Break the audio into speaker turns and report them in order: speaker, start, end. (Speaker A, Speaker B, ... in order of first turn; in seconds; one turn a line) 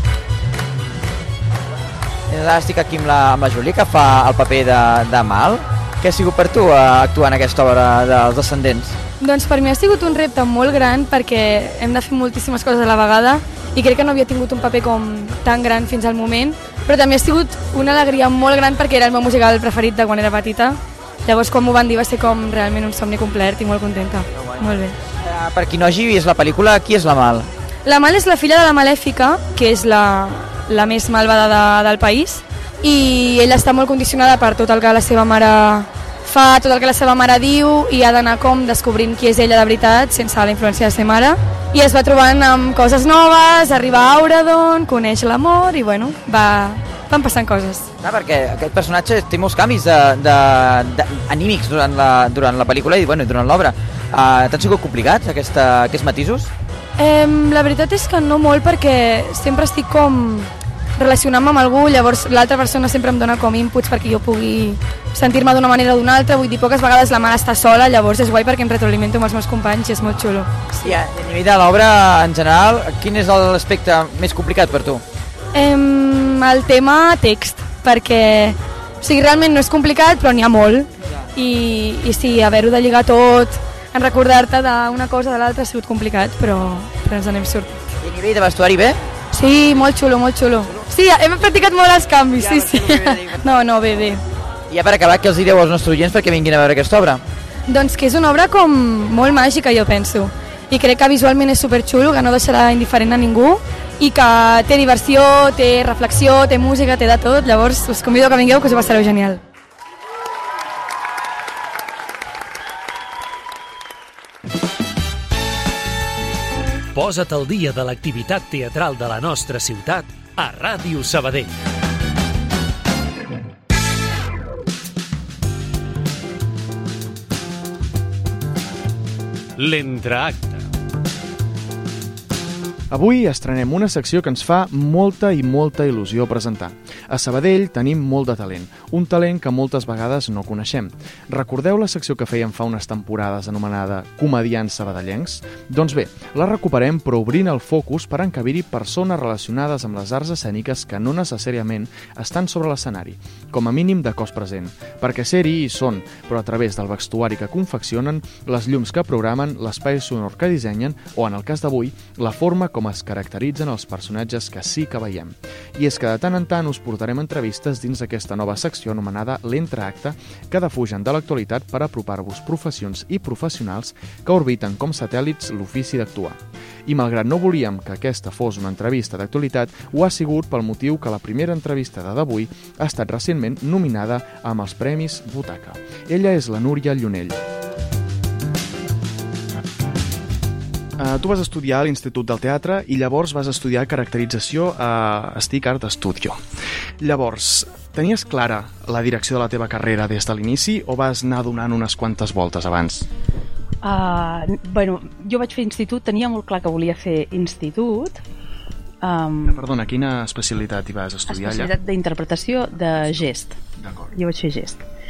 Speaker A: 2.3-9.0
Speaker B: 9.2-25.0
Speaker A: 24.3-27.5
Speaker B: 27.9-47.9
Speaker A: 48.0-56.5
Speaker B: 57.0-70.9
Speaker A: 70.8-75.0
Speaker B: 75.5-87.7
Speaker A: 88.0-89.0
Speaker B: 89.3-94.2
Speaker A: 92.4-93.5
Speaker A: 94.7-97.2
Speaker B: 97.7-109.4
Speaker C: 117.0-121.6
Speaker C: 129.6-130.7
Speaker D: 132.9-187.4
Speaker D: 191.0-196.4
Speaker D: 197.0-203.1
Speaker E: 203.8-208.2
Speaker E: 209.0-209.7
Speaker D: 209.4-211.7
Speaker E: 211.3-213.6
Speaker D: 213.0-213.3
Speaker D: 213.8-214.1
Speaker E: 214.1-214.9